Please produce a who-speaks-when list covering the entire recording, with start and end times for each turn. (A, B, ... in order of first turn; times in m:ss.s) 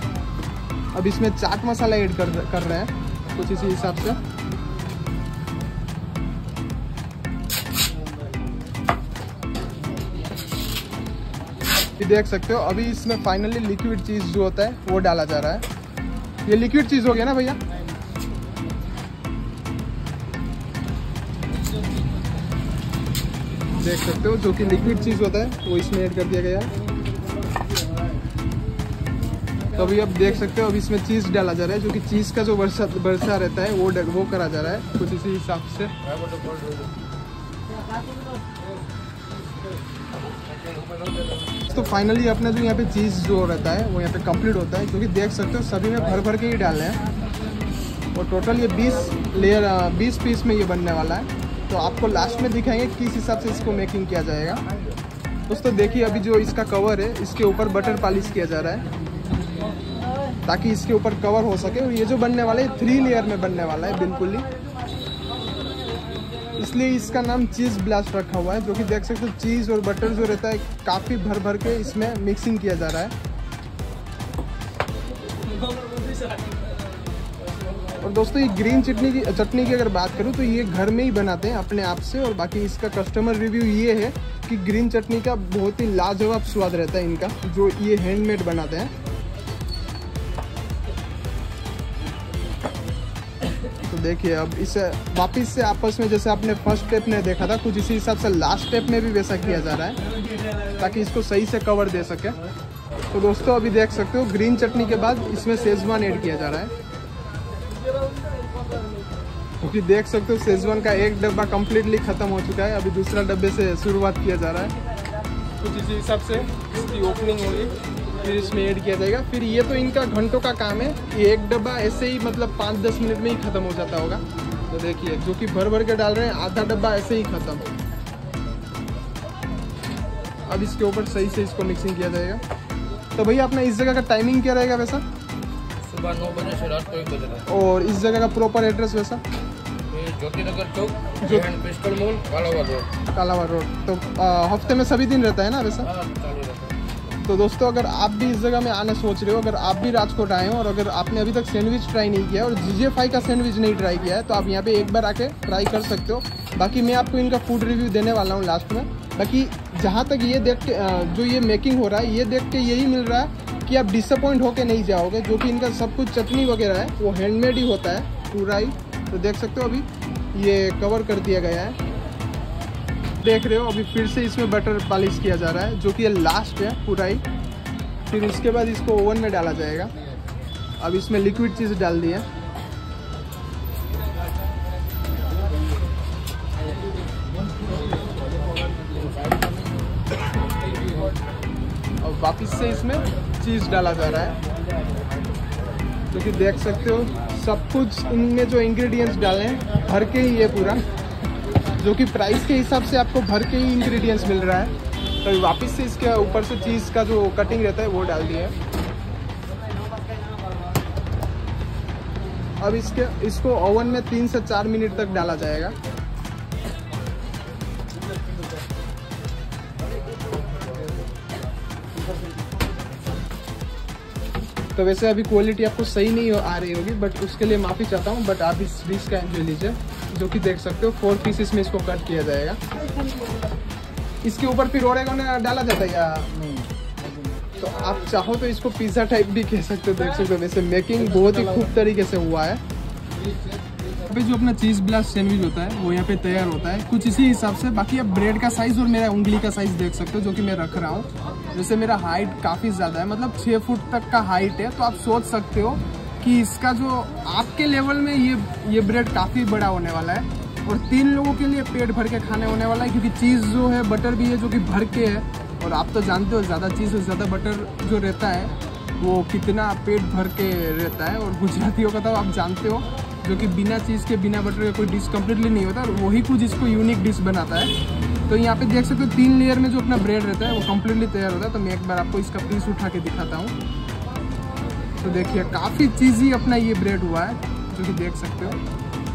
0:01.0-0:04.2 A
0:12.0-0:15.6 A
0:16.5-0:17.6 A
0:23.8-0:26.7 A
0:29.7-0:35.9 A
0:36.0-0:36.9 B
0:40.5-0:41.4 B
0:41.7-0:47.0 A
0:48.2-0:54.6 A
0:55.5-0:58.9 A
1:00.5-1:04.5 A
1:06.6-1:13.1 A
1:18.0-1:28.9 A
1:33.8-1:40.0 A
1:40.7-1:42.4 A
1:43.1-1:46.7 A
1:49.6-1:54.8 A
1:55.6-2:07.6 A
2:10.5-2:12.4 A
2:13.2-2:15.0 A
2:15.8-2:17.5 B
2:17.5-2:19.2 A
2:19.9-2:22.9 B
2:21.2-2:21.5 A
2:23.1-2:25.9 A
2:25.8-2:26.8 B
2:27.2-2:51.8 A
2:53.2-2:57.2 A
2:58.1-2:59.9 A
3:00.8-3:02.3 A
3:09.2-3:09.5 B
3:12.0-3:14.4 A
3:16.1-3:20.8 A
3:21.8-3:24.7 A
3:25.2-3:28.6 A
3:32.6-3:35.8 A
3:44.8-3:52.6 A
3:54.2-3:56.6 A
3:57.5-4:02.6 A
4:04.1-4:37.7 A
4:38.3-4:43.6 A
4:45.0-4:48.6 A